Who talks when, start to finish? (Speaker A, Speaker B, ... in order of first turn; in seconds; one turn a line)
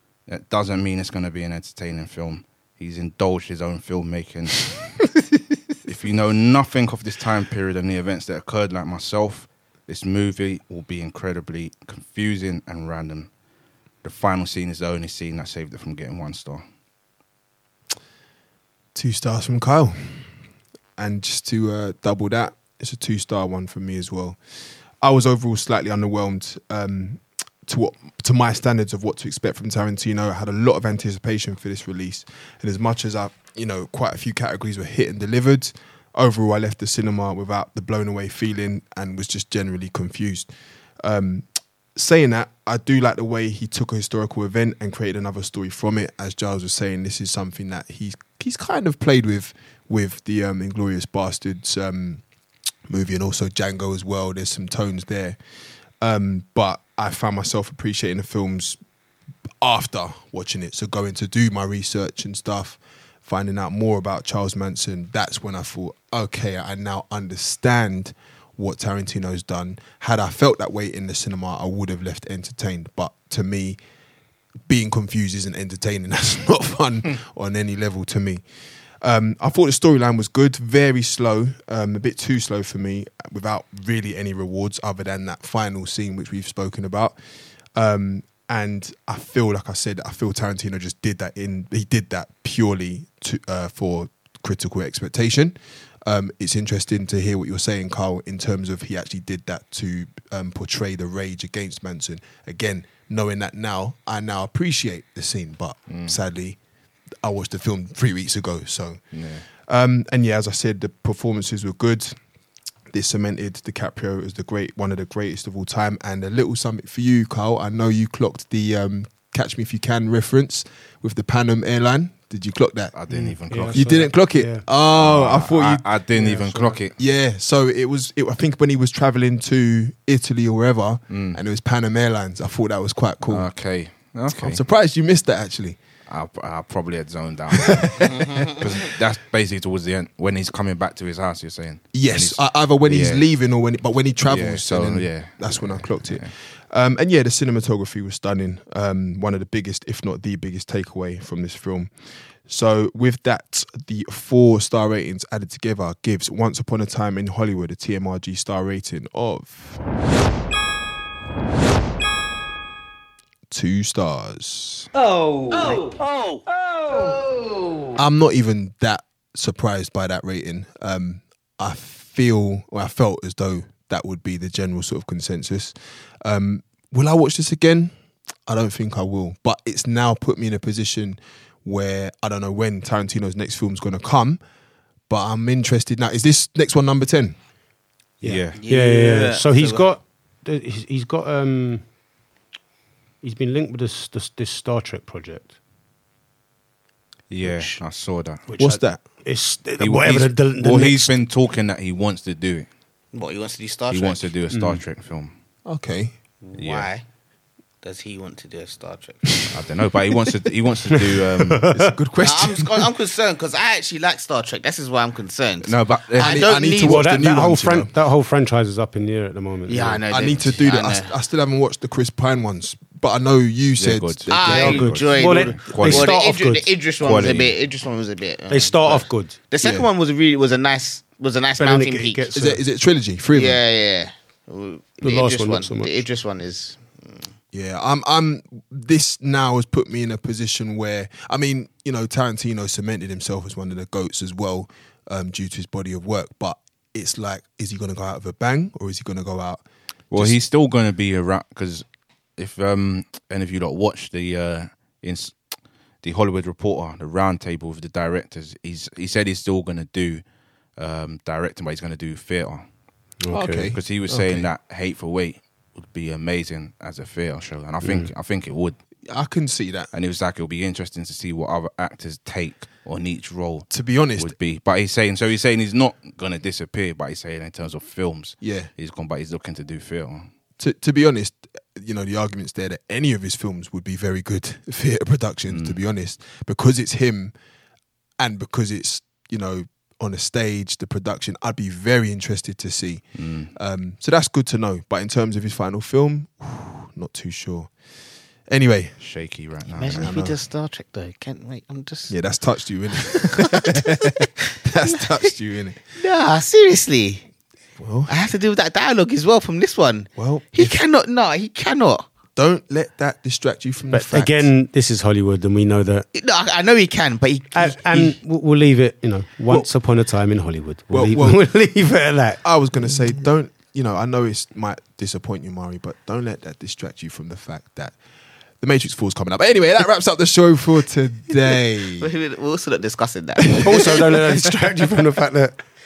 Speaker A: 0.3-4.8
Speaker A: 5.8-13.3
Speaker A: 14.0-16.6
Speaker B: 18.9-20.3
Speaker B: 20.9-24.4
Speaker B: 25.0-40.5
Speaker B: 41.0-52.2
Speaker B: 52.9-55.4
Speaker B: 56.0-58.8
Speaker B: 59.6-73.8
Speaker B: 74.7-78.4
Speaker B: 79.0-87.2
Speaker B: 87.7-106.6
Speaker A: 105.9-106.2
Speaker B: 107.2-112.2
Speaker A: 109.1-109.5
Speaker B: 112.9-122.9
Speaker A: 122.9-124.0
Speaker C: 123.1-124.7
Speaker B: 123.6-125.9
Speaker A: 124.9-127.0
Speaker C: 126.2-126.8
Speaker B: 127.0-133.5
Speaker A: 131.1-131.4
Speaker A: 133.2-134.6
Speaker B: 134.3-135.8
Speaker A: 136.1-143.2
Speaker B: 137.6-138.2
Speaker D: 138.1-138.6
Speaker B: 141.9-151.9
Speaker A: 144.3-146.3
Speaker B: 152.5-159.8
Speaker B: 163.5-164.9
Speaker D: 165.0-166.0
Speaker D: 166.8-167.3
Speaker B: 167.9-177.9
Speaker B: 178.4-184.4
Speaker B: 185.1-187.3
Speaker C: 188.2-191.8
Speaker A: 188.2-188.6
Speaker D: 188.5-189.9
Speaker C: 193.2-195.5
Speaker A: 197.3-198.4
Speaker C: 197.4-197.8
Speaker C: 198.4-201.2
Speaker B: 198.6-199.0
Speaker A: 199.8-202.7
Speaker D: 203.1-204.3
Speaker A: 203.9-205.3
Speaker C: 204.5-204.8
Speaker B: 205.6-206.1
Speaker D: 206.4-207.0
Speaker A: 206.6-206.9
Speaker D: 207.8-209.4
Speaker A: 209.5-211.6
Speaker C: 211.5-211.9
Speaker B: 211.6-212.9
Speaker D: 212.2-217.2
Speaker A: 215.6-216.6
Speaker B: 216.2-217.9
Speaker C: 216.8-220.0
Speaker D: 219.7-221.1
Speaker B: 220.1-224.9
Speaker A: 223.8-226.1
Speaker D: 224.3-232.3
Speaker C: 224.4-226.7
Speaker A: 227.0-227.6
Speaker C: 228.5-229.3
Speaker B: 229.6-229.9
Speaker C: 231.6-232.6
Speaker B: 232.3-233.6
Speaker D: 233.3-237.3
Speaker C: 235.0-236.0
Speaker B: 237.5-250.4
Speaker A: 250.1-251.8
Speaker A: 252.3-255.3
Speaker A: 256.0-260.2
Speaker A: 260.8-262.6
Speaker C: 263.2-263.7
Speaker B: 263.3-264.5
Speaker A: 263.7-268.8
Speaker C: 267.8-268.1
Speaker B: 269.1-269.9
Speaker A: 269.9-280.3
Speaker B: 273.7-274.3
Speaker B: 278.4-278.7
Speaker B: 280.6-287.3
Speaker A: 285.5-285.8
Speaker B: 288.2-297.7
Speaker A: 293.1-293.5
Speaker B: 298.5-298.9
Speaker A: 299.0-300.1
Speaker D: 299.7-302.1
Speaker B: 299.9-300.4
Speaker B: 302.1-305.8
Speaker D: 303.1-304.3
Speaker D: 306.0-307.2
Speaker B: 307.8-308.1
Speaker D: 308.1-312.1
Speaker B: 310.1-310.7
Speaker B: 312.4-314.5
Speaker C: 313.9-316.1
Speaker D: 316.1-318.2
Speaker C: 317.5-322.4
Speaker B: 320.9-321.5
Speaker B: 322.4-327.9
Speaker B: 328.6-332.1
Speaker D: 332.0-333.9
Speaker B: 333.5-334.1
Speaker C: 333.6-335.6